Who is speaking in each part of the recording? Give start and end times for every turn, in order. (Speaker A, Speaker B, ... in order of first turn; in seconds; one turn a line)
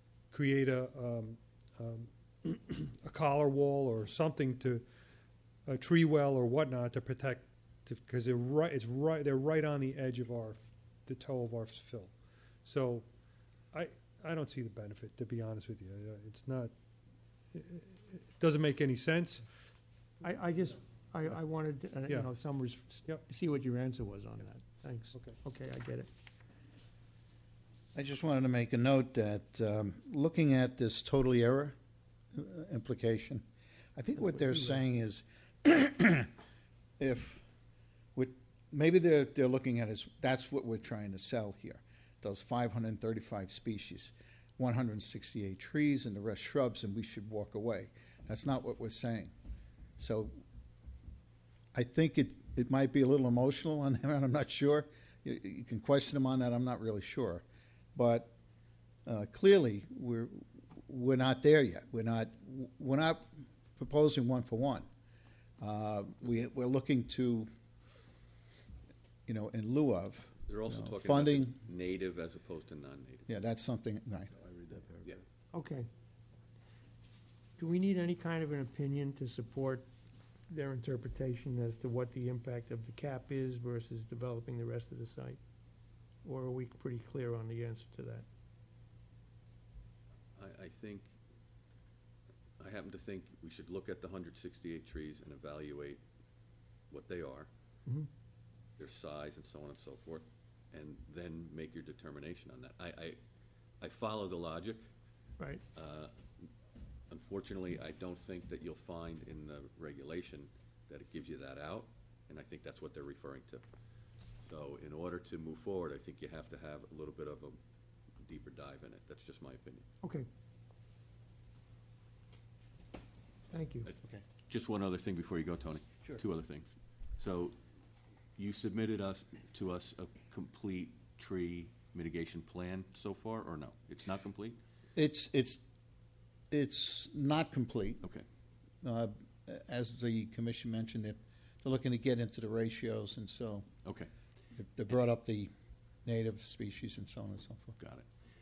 Speaker A: 0.3-4.8
Speaker A: 5.7-13.1
Speaker A: 13.7-16.7
Speaker A: 17.5-19.4
Speaker B: 20.2-26.1
Speaker A: 20.2-21.4
Speaker A: 22.1-22.3
Speaker C: 27.9-31.7
Speaker C: 32.3-33.4
Speaker C: 34.0-36.3
Speaker C: 37.0-37.4
Speaker C: 38.1-49.3
Speaker C: 50.0-50.3
Speaker C: 51.7-57.4
Speaker C: 57.9-58.3
Speaker C: 59.0-64.8
Speaker C: 65.6-67.5
Speaker C: 69.3-71.6
Speaker D: 70.5-73.4
Speaker C: 73.3-74.3
Speaker D: 74.3-75.2
Speaker B: 75.5-75.9
Speaker B: 77.6-79.9
Speaker B: 80.5-85.4
Speaker B: 86.2-88.2
Speaker D: 90.3-91.1
Speaker D: 92.6-96.0
Speaker D: 96.9-97.5
Speaker D: 98.8-103.2
Speaker D: 103.8-104.8
Speaker D: 105.7-106.1
Speaker D: 107.1-113.6
Speaker D: 114.4-117.6
Speaker D: 118.2-119.8
Speaker B: 120.0-120.3
Speaker B: 123.5-123.9
Speaker D: 124.5-126.7
Speaker D: 127.2-127.5
Speaker D: 128.4-134.6
Speaker C: 134.9-135.6
Speaker C: 136.5-138.0
Speaker C: 138.8-143.7
Speaker D: 143.8-144.1
Speaker C: 144.5-145.5
Speaker C: 146.1-147.8
Speaker D: 147.8-148.0